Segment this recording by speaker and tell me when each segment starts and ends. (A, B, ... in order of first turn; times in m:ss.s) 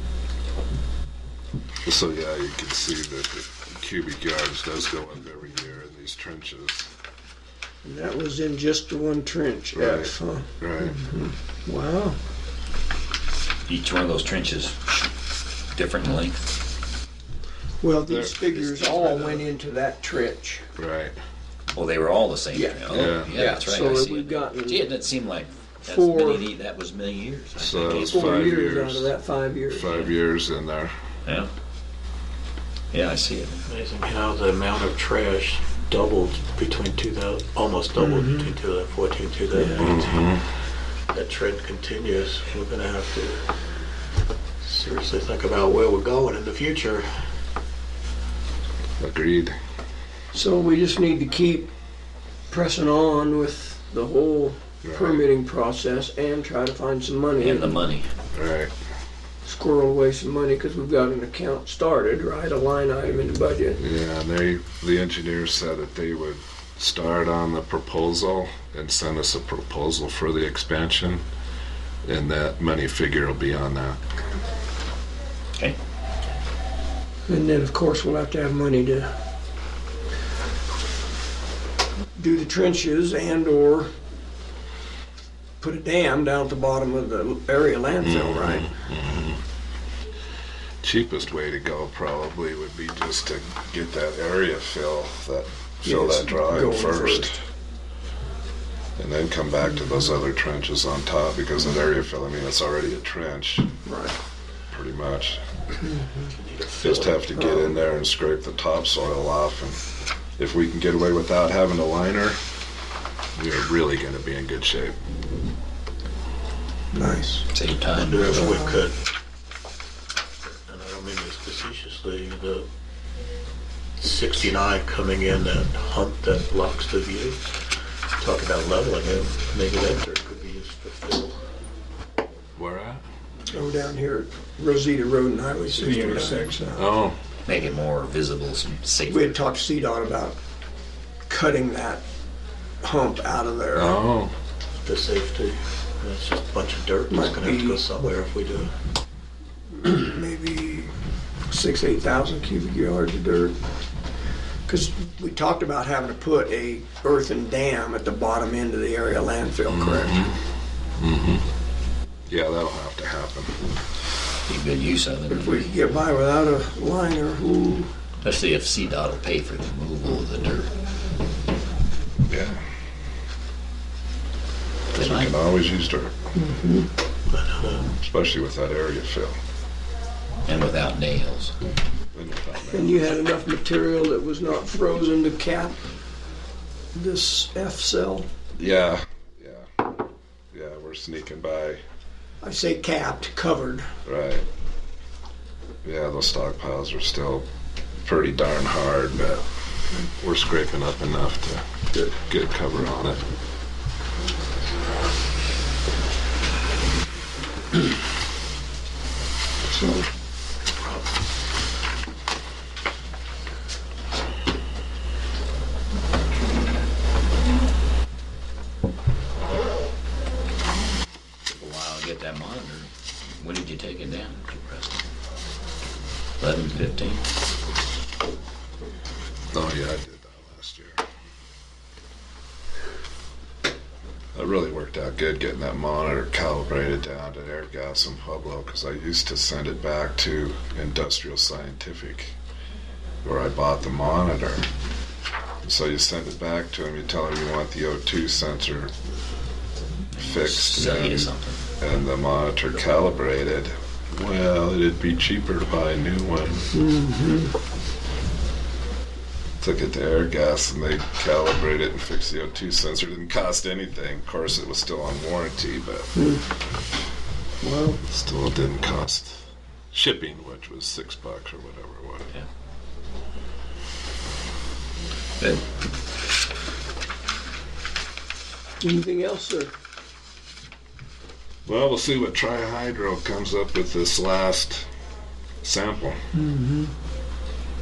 0:01.8-0:06.9 A
0:07.8-0:12.2 B
0:09.7-0:11.0 A
0:13.7-0:15.1 C
0:15.7-0:16.4 C
0:17.8-0:20.7 B
0:18.1-0:19.4 A
0:20.8-0:21.2 A
0:21.7-0:28.6 C
0:22.5-0:24.9 B
0:22.9-0:23.3 A
0:25.8-0:26.4 B
0:27.6-0:29.1 A
0:27.9-0:30.0 B
0:29.7-0:30.9 A
0:31.2-0:31.5 C
0:32.9-0:33.6 C
0:33.7-0:40.3 D
0:38.0-0:38.5 B
0:39.5-0:39.8 B
0:39.8-0:40.5 A
0:41.1-0:43.5 D
0:44.6-0:47.3 D
0:49.0-0:49.6 A
0:50.3-0:51.7 B
0:52.5-0:57.8 B
0:54.8-0:55.2 A
0:57.4-0:58.1 C
0:58.3-0:58.7 A
0:59.4-1:03.8 B
1:03.8-1:11.2 A
1:12.0-1:14.0 A
1:17.3-1:19.1 B
1:22.2-1:23.9 B
1:25.6-1:28.7 B
1:28.0-1:29.4 A
1:30.8-1:37.4 A
1:35.8-1:37.4 B
1:39.0-1:43.7 A
1:43.8-1:44.2 B
1:44.7-1:45.4 A
1:46.3-1:47.2 D
1:46.8-1:49.8 A
1:47.4-1:47.8 B
1:50.4-1:52.4 A
1:53.4-1:55.0 A
1:56.9-1:57.5 B
1:57.5-1:58.4 C
1:58.0-1:59.0 D
1:58.3-1:58.8 B
2:00.4-2:02.7 D
2:04.0-2:07.5 D
2:08.2-2:11.4 D
2:12.6-2:13.0 A
2:13.5-2:16.8 B
2:15.6-2:16.7 D
2:16.7-2:17.2 A
2:17.4-2:19.4 C
2:19.1-2:20.4 B
2:21.3-2:22.0 B
2:22.8-2:24.0 B
2:23.7-2:24.3 A
2:24.8-2:28.7 D
2:27.1-2:27.8 B
2:29.8-2:30.9 B
2:31.5-2:33.6 B
2:34.7-2:40.3 B
2:39.7-2:40.4 A
2:41.0-2:41.5 A
2:42.3-2:43.7 A
2:44.5-2:45.7 C
2:45.3-2:47.9 B
2:48.2-2:50.7 C
2:52.3-2:52.6 A
2:54.9-2:55.3 C
2:54.9-2:56.2 A
2:56.4-2:56.9 B
2:57.3-2:57.9 D
2:58.0-2:59.4 A
3:00.4-3:01.6 C
3:02.1-3:03.0 A
3:02.7-3:05.9 B
3:06.9-3:08.3 B
3:08.6-3:09.8 A
3:10.5-3:11.8 A
3:12.4-3:13.9 B
3:14.0-3:14.5 A
3:15.8-3:17.5 A
3:18.0-3:19.5 A
3:20.1-3:23.2 A
3:29.6-3:30.1 B
3:41.5-3:45.0 C
3:46.4-3:47.2 C
3:49.5-3:51.0 A
3:54.4-4:02.4 A
4:03.2-4:04.7 A
4:05.6-4:08.9 A
4:10.1-4:11.6 C
4:10.2-4:16.7 A
4:16.7-4:17.5 B
4:19.6-4:26.1 A
4:26.2-4:26.4 B
4:27.6-4:28.0 B
4:28.1-4:32.3 A
4:38.8-4:39.7 B
4:41.7-4:44.9 A
4:45.6-4:46.2 A
4:46.3-4:46.9 B